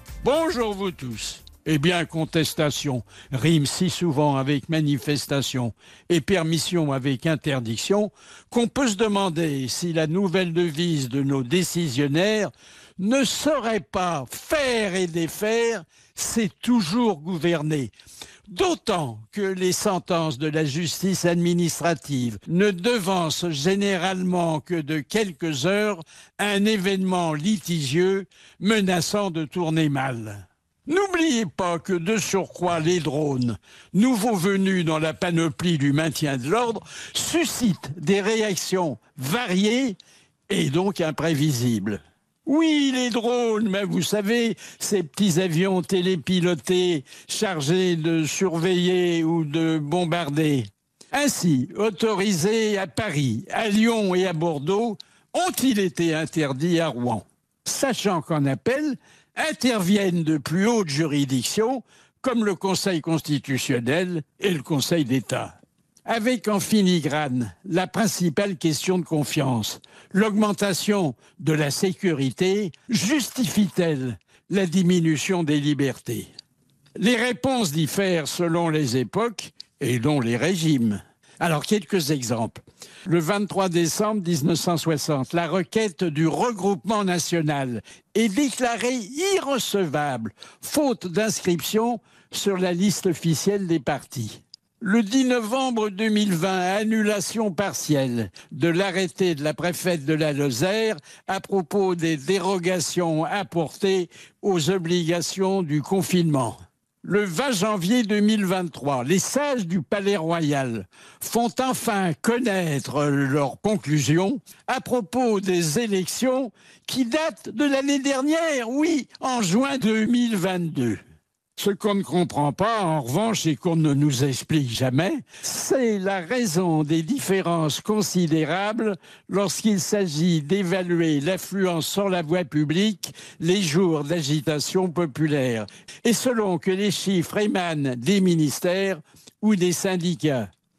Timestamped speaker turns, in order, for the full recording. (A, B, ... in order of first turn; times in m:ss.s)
0:00.2-0:17.9 A
0:18.5-0:40.0 A
0:40.5-1:05.5 A
1:06.1-1:16.3 A
1:17.0-2:01.0 A
2:01.6-2:20.5 A